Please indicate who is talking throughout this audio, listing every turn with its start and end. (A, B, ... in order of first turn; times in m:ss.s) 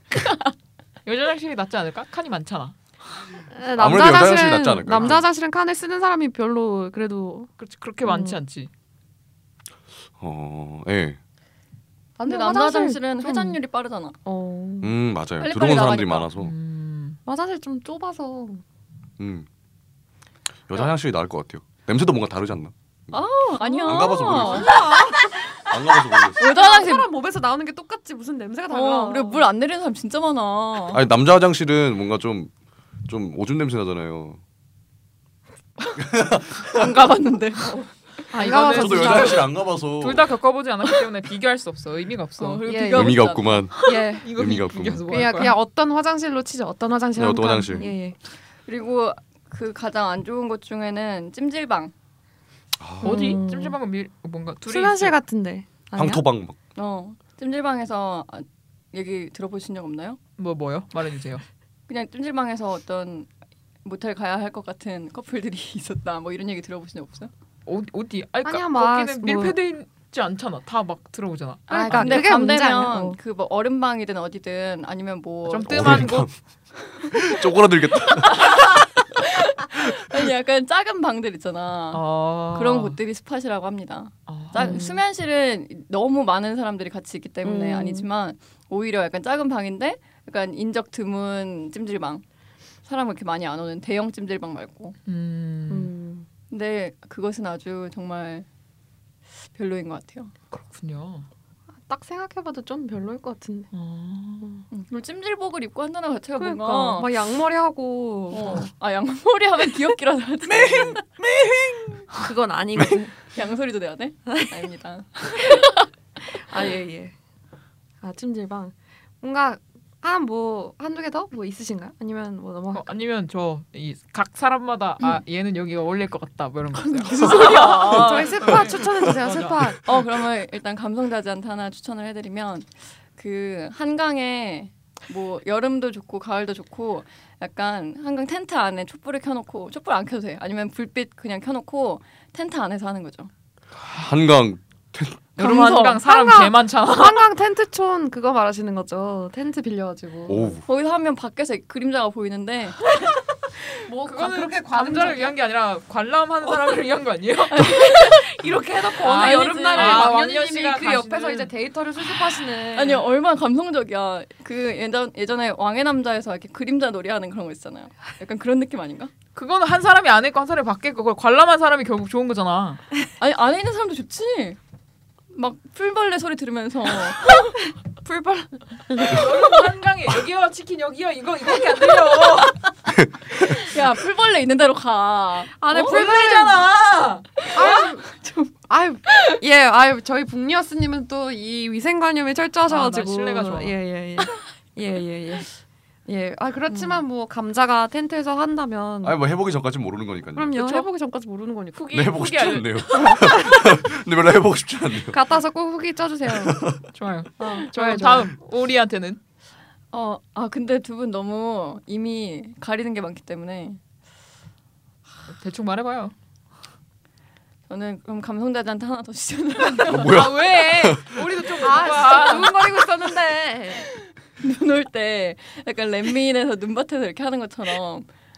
0:00.2-0:00.5 A
0:01.0-0:02.8 B
0:03.5-0:07.5 C
0:03.8-0:05.2 D
0:07.6-0:08.7 B
0:08.0-0:08.4 C
0:10.2-0:11.2 D
0:12.2-0:13.6 C
0:12.3-0:14.2 A
0:14.2-0:15.0 C
0:14.8-0:16.5 D
0:15.4-0:16.3 A
0:16.4-0:17.2 B
0:17.2-0:18.6 C
0:19.2-0:19.5 D
0:20.7-0:23.1 D
0:23.1-0:25.7 A
0:23.6-0:25.4 C
0:23.8-0:24.9 D
0:25.6-0:26.4 D
0:26.3-0:27.1 A
0:26.4-0:29.5 C
0:28.7-0:31.0 A
0:30.9-0:32.5 D
0:33.1-0:34.4 D
0:36.0-0:37.0 D
0:36.7-0:37.8 A
0:37.7-0:39.5 C
0:38.3-0:42.7 B
0:38.5-0:40.2 D
0:42.4-0:43.7 A
0:42.6-0:44.4 C
0:42.9-0:45.0 D
0:43.7-0:45.6 B
0:45.1-0:48.2 C
0:47.2-0:47.9 D
0:48.6-0:51.9 A
0:52.8-0:53.4 D
0:53.0-0:55.2 B
0:53.0-0:53.8 C
0:54.6-0:56.2 C
0:56.0-0:56.6 D
0:56.7-1:00.2 A
1:00.4-1:01.4 B
1:01.9-1:03.3 A
1:03.8-1:07.3 A
1:07.6-1:12.3 B
1:08.4-1:09.6 C
1:11.7-1:13.2 C
1:11.7-1:16.0 A
1:15.5-1:16.3 B
1:15.7-1:16.3 D
1:17.1-1:18.8 D
1:19.2-1:32.2 A
1:21.9-1:23.0 B
1:24.3-1:24.8 B
1:24.6-1:25.0 C
1:27.4-1:28.1 C
1:32.8-1:35.0 A
1:35.0-1:35.9 B
1:35.7-1:36.3 C
1:36.5-1:38.5 A
1:39.5-1:40.3 A
1:40.5-1:41.3 B
1:41.9-1:43.7 C
1:43.7-1:44.6 B
1:44.7-1:47.1 A
1:46.4-1:48.7 C
1:48.3-1:51.0 A
1:50.5-1:52.1 B
1:52.1-1:53.1 C
1:53.2-1:55.9 A
1:56.3-1:57.1 C
1:58.0-2:02.9 C
2:02.7-2:09.8 B
2:06.7-2:08.5 A
2:07.2-2:10.0 C
2:09.8-2:23.3 A
2:23.8-2:25.2 D
2:25.4-2:26.0 A
2:25.4-2:27.3 B
2:25.5-2:30.6 C
2:30.3-2:30.6 D
2:30.6-2:32.8 A
2:33.8-2:35.4 C
2:34.0-2:37.8 B
2:37.5-2:38.3 A
2:37.8-2:43.0 C
2:39.0-2:41.5 B
2:39.0-2:40.1 A
2:42.7-2:49.1 A
2:49.3-2:52.8 B
2:53.2-2:54.6 A
2:55.3-2:57.6 A
2:58.0-2:59.5 C
2:58.9-3:02.6 B
3:02.9-3:03.6 D
3:03.4-3:06.0 A
3:05.6-3:06.7 C
3:05.7-3:07.8 B
3:07.4-3:08.6 A
3:07.5-3:08.0 C
3:08.7-3:15.5 C
3:09.1-3:09.4 A
3:12.7-3:13.8 B
3:16.1-3:19.2 C
3:16.7-3:17.0 A
3:19.0-3:20.6 D
3:20.3-3:22.1 C
3:21.7-3:23.2 B
3:21.9-3:25.2 D
3:22.9-3:23.6 C
3:25.1-3:26.6 C
3:26.3-3:26.8 D
3:26.9-3:29.2 B
3:27.4-3:28.3 C
3:29.9-3:33.8 A
3:35.3-3:36.1 B
3:37.7-3:40.3 A
3:39.8-3:41.2 D
3:39.9-3:42.6 B
3:41.5-3:43.9 C
3:44.4-3:48.1 A